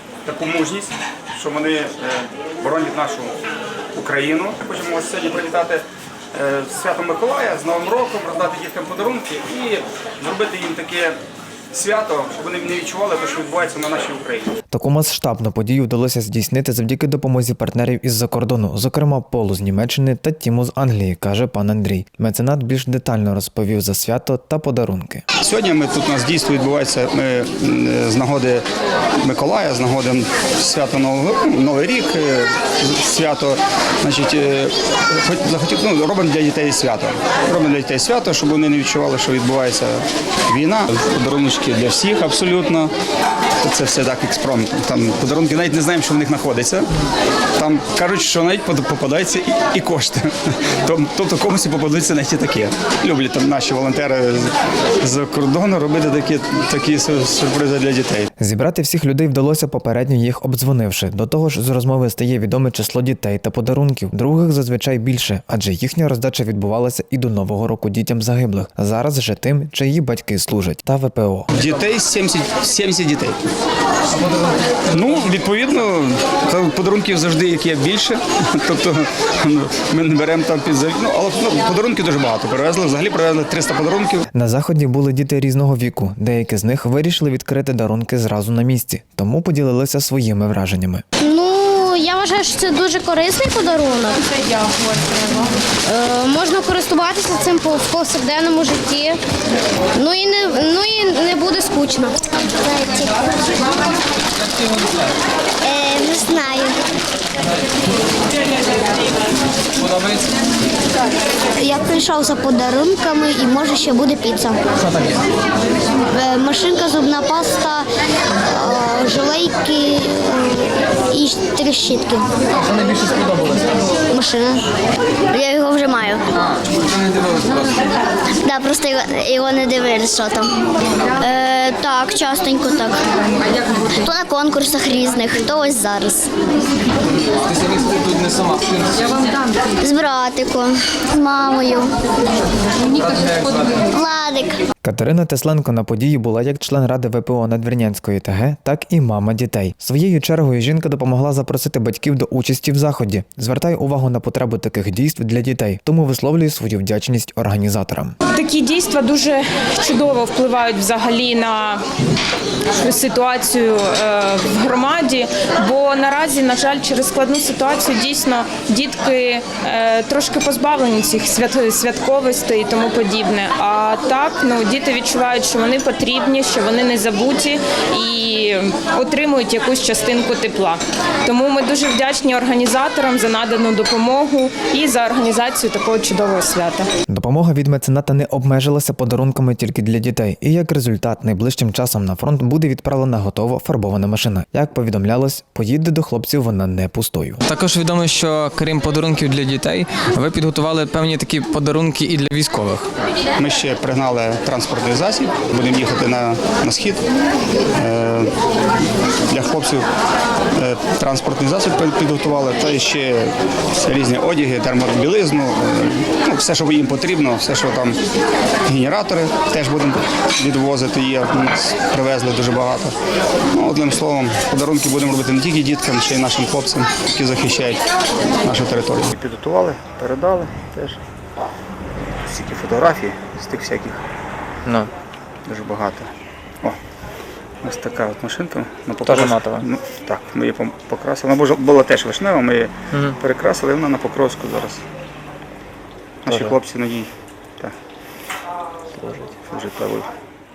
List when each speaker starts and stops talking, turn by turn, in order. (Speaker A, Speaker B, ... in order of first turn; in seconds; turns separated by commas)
Speaker A: 0.2-3.3, Speaker A: 3.9-11.2, Speaker A: 11.7-14.5, Speaker B: 14.7-25.2, Speaker A: 25.4-28.6, Speaker A: 29.2-42.9, Speaker A: 43.6-46.9, Speaker A: 47.5-58.3, Speaker B: 58.4-71.5, Speaker A: 71.5-73.4, Speaker A: 74.9-84.2, Speaker B: 84.3-91.0, Speaker C: 91.2-94.2, Speaker C: 95.8-99.2, Speaker C: 99.9-102.1, Speaker D: 102.6-103.2, Speaker D: 105.6-106.8, Speaker D: 111.6-114.6, Speaker D: 116.1-117.8, Speaker D: 118.5-122.3, Speaker E: 122.9-123.3, Speaker D: 124.1-124.6, Speaker D: 125.3-126.2, Speaker E: 127.2-127.6, Speaker D: 128.4-130.5, Speaker D: 131.2-133.0, Speaker D: 133.7-136.3, Speaker E: 137.5-138.9, Speaker D: 139.8-141.9, Speaker D: 143.9-144.6, Speaker B: 144.8-158.2, Speaker F: 158.3-161.8, Speaker F: 162.7-186.9, Speaker B: 187.1-197.4, Speaker E: 197.4-202.8, Speaker A: 203.4-207.0, Speaker A: 207.8-208.3, Speaker A: 209.3-209.8, Speaker A: 210.6-218.0, Speaker A: 218.7-222.9, Speaker A: 223.5-227.8, Speaker A: 228.4-231.0, Speaker A: 232.2-234.0, Speaker A: 235.5-236.1, Speaker A: 237.6-244.8, Speaker E: 239.1-239.6, Speaker A: 246.2-247.7, Speaker A: 249.4-250.1